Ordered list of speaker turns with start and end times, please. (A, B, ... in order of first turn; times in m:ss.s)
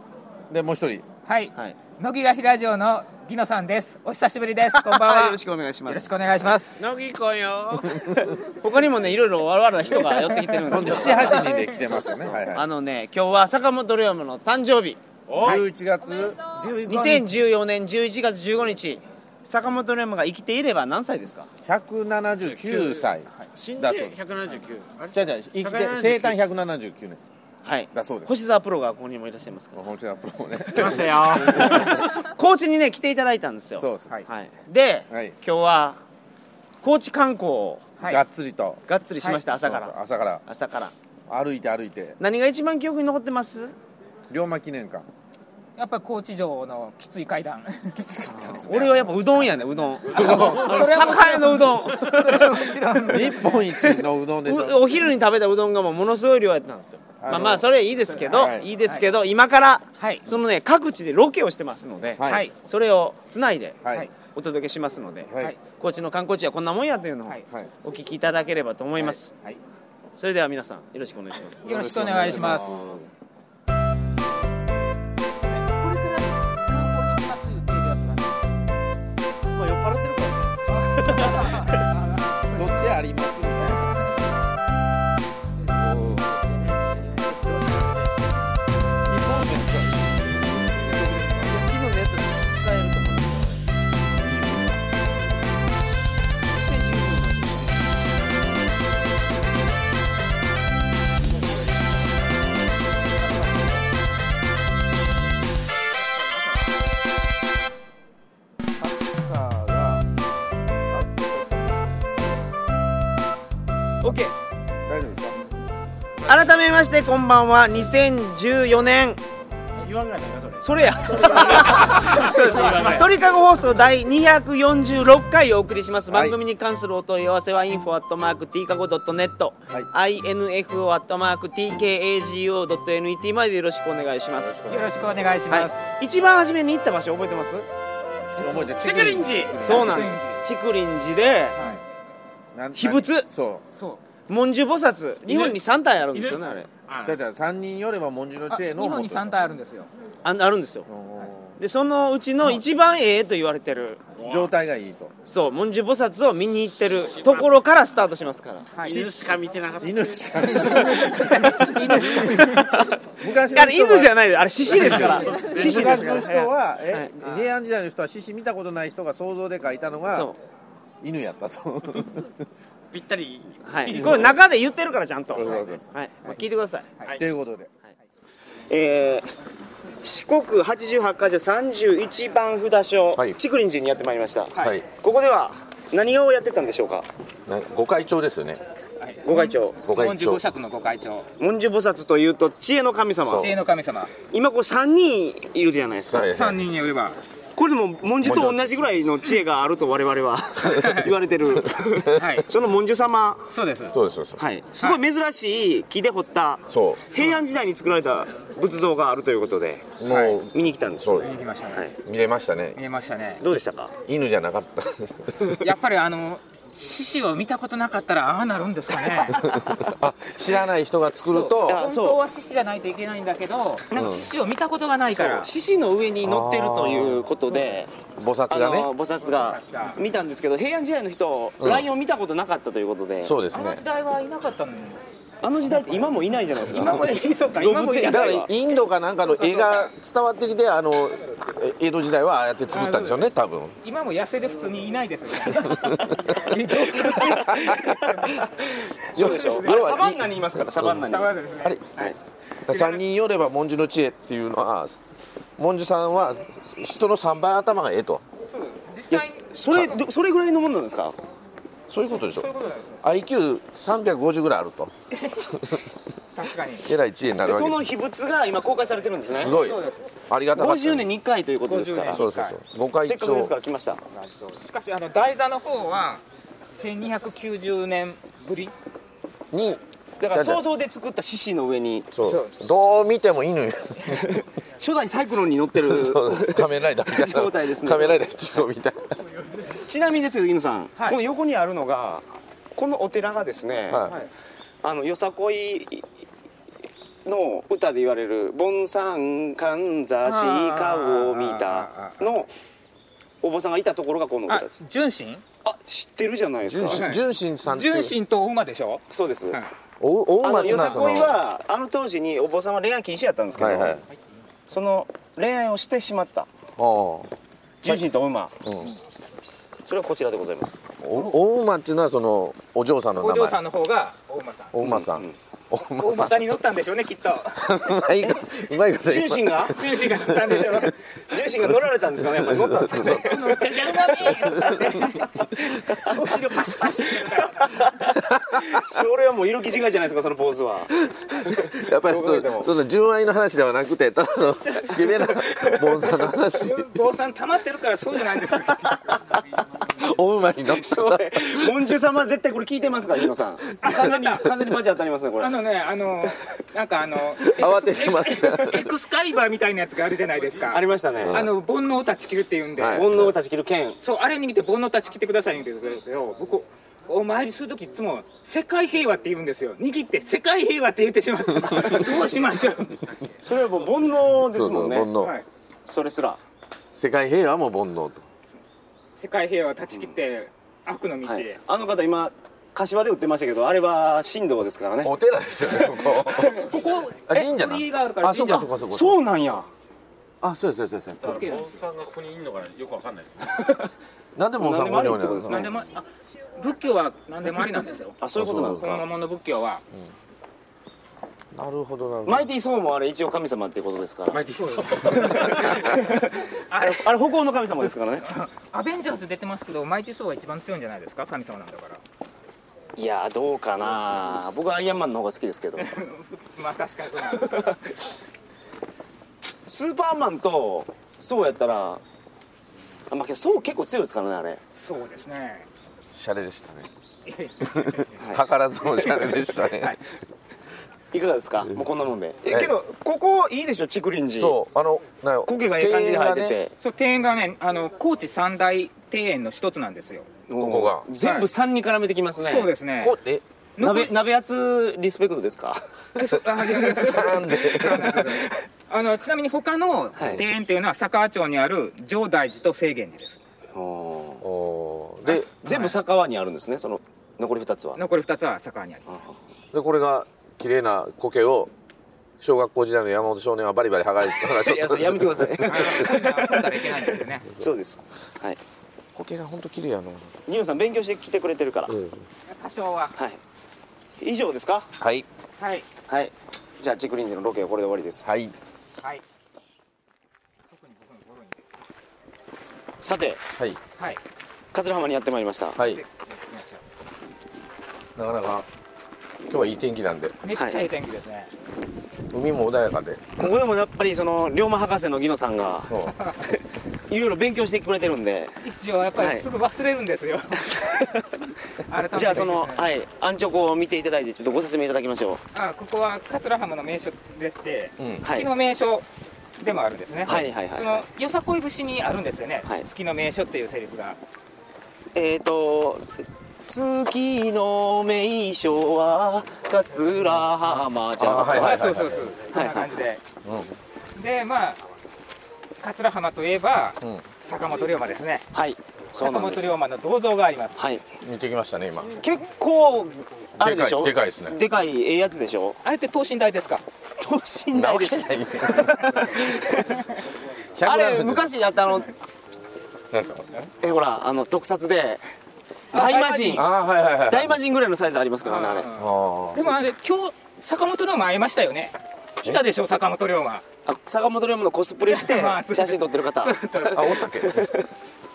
0:00.5-0:01.1 A
0:01.3-0:06.8 B
0:04.8-0:06.2 C
0:06.8-0:08.2 D
0:08.2-0:15.6 C
0:10.7-0:12.7 A
0:15.3-0:15.7 D
0:15.4-0:16.4 A
0:16.5-0:17.3 D
0:16.6-0:21.5 C
0:21.6-0:24.2 A
0:22.4-0:26.5 D
0:25.1-0:27.2 A
0:27.6-0:29.8 C
0:27.9-0:28.3 A
0:29.7-0:32.0 A
0:30.7-0:32.0 D
0:31.5-0:36.0 C
0:33.8-0:34.2 A
0:35.1-0:35.4 A
0:36.8-0:37.9 C
0:38.0-0:38.8 A
0:38.9-0:39.9 C
0:39.5-0:40.4 A
0:40.5-0:40.9 C
0:41.3-0:42.2 A
0:42.2-0:43.8 C
0:44.3-0:45.1 A
0:45.8-0:49.3 B
0:48.3-0:53.0 C
0:50.1-0:51.1 A
0:50.1-0:54.0 B
0:53.0-0:54.9 A
0:53.8-1:09.3 C
0:57.2-0:57.7 A
0:58.1-0:59.1 B
0:58.3-0:58.7 A
1:00.0-1:00.3 B
1:02.2-1:02.5 A
1:02.2-1:02.5 B
1:03.8-1:04.1 A
1:05.3-1:05.6 A
1:07.5-1:07.7 A
1:10.2-1:11.7 C
1:11.6-1:12.8 B
1:11.6-1:13.0 A
1:12.8-1:13.0 C
1:15.5-1:18.4 B
1:19.5-1:21.7 C
1:20.7-1:22.7 B
1:22.5-1:24.0 A
1:25.8-1:26.3 A
1:29.2-1:29.8 C
1:31.0-1:33.6 C
1:36.5-1:37.9 C
1:48.8-1:50.1 A
1:50.9-1:51.3 A
1:54.0-1:54.3 C
1:54.9-1:55.4 A
1:56.2-1:59.2 C
1:59.8-2:03.2 D
2:00.6-2:14.7 C
2:06.1-2:06.4 A
2:14.4-2:15.0 A
2:14.7-2:15.9 B
2:15.5-2:17.7 C
2:18.3-2:20.4 B
2:18.4-2:20.2 A
2:19.6-2:21.6 C
2:21.6-2:21.8 B
2:22.5-2:23.6 A
2:22.8-2:23.3 C
2:23.7-2:24.0 B
2:24.3-2:26.7 C
2:25.3-2:25.6 D
2:26.1-2:27.2 D
2:27.0-2:29.4 A
2:28.5-2:29.9 B
2:30.2-2:30.9 C
2:30.9-2:31.6 A
2:31.6-2:34.0 C
2:34.2-2:34.5 D
2:34.2-2:35.1 A
2:35.3-2:39.1 C
2:37.1-2:37.5 D
2:38.8-2:39.1 B
2:38.8-2:40.8 D
2:39.8-2:50.3 A
2:40.6-2:47.1 C
2:40.6-2:42.2 B
2:44.7-2:46.4 D
2:50.1-2:50.4 C
2:51.0-2:52.3 A
2:52.9-2:54.4 D
2:53.6-2:56.9 C
2:53.9-2:54.3 A
2:55.3-2:55.9 A
2:57.2-2:57.7 A
2:58.7-2:59.3 C
3:00.0-3:07.1 C
3:04.6-3:04.8 A
3:07.5-3:08.6 A
3:09.0-3:11.3 B
3:09.2-3:09.8 C
3:09.8-3:10.4 A
3:11.4-3:13.5 C
3:13.2-3:13.6 A
3:13.3-3:14.1 B
3:14.3-3:16.3 C
3:16.1-3:16.6 A
3:16.3-3:17.2 B
3:17.6-3:23.5 C
3:18.2-3:18.8 A
3:20.7-3:21.1 B
3:22.2-3:22.5 B
3:23.5-3:24.0 B
3:23.9-3:24.4 A
3:24.4-3:29.9 C
3:26.7-3:27.1 A
3:30.0-3:31.4 A
3:30.1-3:30.4 B
3:30.5-3:31.9 C
3:31.2-3:31.8 B
3:32.0-3:32.8 A
3:32.8-3:33.4 B
3:33.4-3:33.9 C
3:34.1-3:35.5 A
3:35.6-3:39.6 B
3:39.4-3:41.8 A
3:41.2-3:45.5 B
3:41.7-3:42.2 C
3:43.9-3:44.3 A
3:45.1-3:47.9 C
3:46.2-3:47.3 A
3:48.2-3:48.9 A
3:48.5-3:53.3 C
3:49.2-3:50.0 B
3:51.6-3:51.9 A
3:53.2-3:53.8 A
3:53.5-3:55.0 B
3:55.4-3:58.5 C
3:56.7-3:58.5 B
3:58.1-4:03.8 A
4:02.7-4:03.2 B
4:03.8-4:10.1 B
4:05.6-4:08.5 A
4:09.0-4:11.4 C
4:09.1-4:11.1 A
4:10.9-4:12.2 B
4:12.7-4:15.0 A
4:12.7-4:13.0 B
4:15.6-4:18.2 A
4:18.5-4:20.0 B
4:19.1-4:21.2 C
4:21.9-4:22.5 A
4:22.4-4:23.0 B
4:23.0-4:25.9 A
4:25.1-4:25.5 B
4:26.4-4:26.9 B
4:26.8-4:27.9 A
4:27.4-4:29.6 C
4:29.3-4:31.1 A
4:29.5-4:30.1 B
4:30.5-4:32.2 C
4:31.6-4:32.6 B
4:32.1-4:33.5 A
4:33.0-4:34.0 C
4:34.1-4:36.2 B
4:36.8-4:38.7 B
4:39.5-4:40.6 A
4:40.2-4:42.1 C
4:42.1-4:44.4 A
4:42.2-4:42.6 B
4:44.8-4:48.2 C
4:45.8-4:49.2 A
4:49.7-4:54.1 C
4:53.9-4:54.2 A
4:54.8-4:56.1 C
4:57.3-5:02.5 C
5:00.2-5:02.2 B
5:03.4-5:04.8 C
5:04.5-5:05.4 B
5:05.6-5:07.1 C
5:06.6-5:08.2 A
5:06.9-5:09.7 B
5:09.1-5:09.6 C
5:10.0-5:11.4 A
5:10.4-5:14.0 C
5:13.6-5:14.0 A
5:14.7-5:16.5 C
5:16.8-5:17.3 A
5:17.8-5:18.6 C
5:18.6-5:18.9 A
5:19.9-5:20.8 C
5:21.0-5:23.6 A
5:23.2-5:24.8 B
5:24.7-5:26.4 A
5:24.8-5:25.3 C
5:26.0-5:28.0 B
5:27.6-5:30.9 A
5:29.0-5:29.8 C
5:29.7-5:31.0 B
5:31.3-5:34.0 C
5:32.2-5:33.2 A
5:33.0-5:37.9 B
5:34.2-5:35.6 A
5:35.9-5:36.1 C
5:38.0-5:38.9 A
5:38.5-5:42.7 C
5:41.1-5:46.8 A
5:45.5-5:45.8 C
5:46.5-5:49.4 B
5:49.8-5:51.8 A
5:50.7-5:55.5 C
5:53.8-5:54.6 B
5:55.4-6:03.1 B
5:57.4-5:59.0 A
6:00.7-6:01.5 C
6:01.2-6:01.5 A
6:02.8-6:03.4 A
6:02.9-6:04.0 C
6:04.0-6:13.0 B
6:13.4-6:15.1 C
6:14.5-6:15.4 A
6:15.8-6:16.4 C
6:16.9-6:18.2 A
6:19.2-6:21.6 B
6:21.2-6:25.1 C
6:25.0-6:26.7 A
6:26.3-6:28.7 B
6:27.3-6:29.2 A
6:28.3-6:29.7 C
6:30.4-6:31.4 A
6:31.2-6:31.8 B
6:31.2-6:33.8 D
6:34.4-6:35.6 A
6:34.6-6:35.7 C
6:35.5-6:36.0 B
6:36.6-6:39.8 B
6:38.2-6:39.1 C
6:38.4-6:38.9 A
6:41.5-6:42.5 A
6:42.3-6:44.4 C
6:44.3-6:46.0 A
6:44.6-6:47.2 B
6:45.0-6:48.3 C
6:48.2-6:52.0 B
6:53.0-6:55.9 C
6:55.8-6:57.8 B
6:59.7-7:02.0 C
7:03.1-7:04.6 C
7:04.8-7:05.7 B
7:06.1-7:06.9 A
7:07.3-7:08.2 B
7:07.6-7:10.0 A
7:09.1-7:10.0 B
7:11.1-7:14.6 C
7:12.5-7:12.7 A
7:14.4-7:16.5 A
7:15.4-7:16.7 C
7:16.8-7:20.3 B
7:20.5-7:22.7 C
7:20.6-7:21.1 A
7:21.2-7:21.5 B
7:22.4-7:23.2 B
7:23.0-7:23.4 A
7:23.8-7:24.1 B
7:23.8-7:25.8 C
7:26.2-7:33.4 B
7:26.8-7:28.4 A
7:30.2-7:30.4 C
7:33.7-7:34.4 C
7:34.4-7:35.5 A
7:35.3-7:38.0 C
7:35.5-7:36.0 B
7:38.0-7:39.1 B
7:39.1-7:39.4 C
7:39.7-7:41.7 A
7:42.4-7:46.0 A
7:44.3-7:46.9 C
7:45.6-7:47.5 B
7:47.6-7:48.6 C
7:49.2-7:50.4 A
7:50.5-7:52.0 C
7:51.9-7:52.3 A
7:52.5-7:53.2 B
7:54.2-7:54.9 C
7:55.0-7:55.3 A
7:55.6-7:55.9 B
7:56.1-7:58.3 C
7:58.3-7:58.6 A
8:00.7-8:01.6 B
8:03.0-8:03.4 C
8:04.7-8:05.8 C
8:05.8-8:06.0 A
8:05.8-8:06.8 B
8:08.2-8:08.7 A
8:09.5-8:10.4 A
8:10.4-8:11.5 B
8:10.6-8:10.8 C
8:12.3-8:13.4 A
8:13.4-8:15.9 C
8:15.9-8:16.2 A
8:16.5-8:18.6 C
8:18.6-8:21.1 B
8:19.2-8:19.4 C
8:20.8-8:21.2 C
8:21.9-8:22.8 B
8:22.1-8:25.4 C
8:25.5-8:29.1 B
8:28.2-8:28.5 C
8:29.6-8:34.2 B
8:30.3-8:31.0 C
8:35.2-8:36.1 C
8:36.7-8:41.8 C
8:41.2-8:42.3 A
8:41.5-8:43.2 B
8:42.5-8:42.9 C
8:43.4-8:43.8 A
8:44.2-8:44.8 B
8:45.8-8:48.5 B
8:48.5-8:49.7 C
8:49.2-8:50.8 B
8:50.8-8:51.0 C
8:51.2-8:52.2 A
8:52.2-8:55.8 C
8:53.6-8:54.6 A
8:55.8-8:56.8 B
8:57.2-8:59.6 C
8:57.7-8:59.8 A
9:00.8-9:01.5 A
9:00.8-9:02.1 C
9:03.1-9:03.7 A
9:03.8-9:05.2 C
9:05.9-9:06.7 B
9:05.9-9:06.7 C
9:06.5-9:07.6 A
9:07.3-9:08.9 C
9:08.4-9:13.6 B
9:09.0-9:09.7 A
9:13.8-9:17.8 C
9:15.1-9:17.2 B
9:16.9-9:17.7 A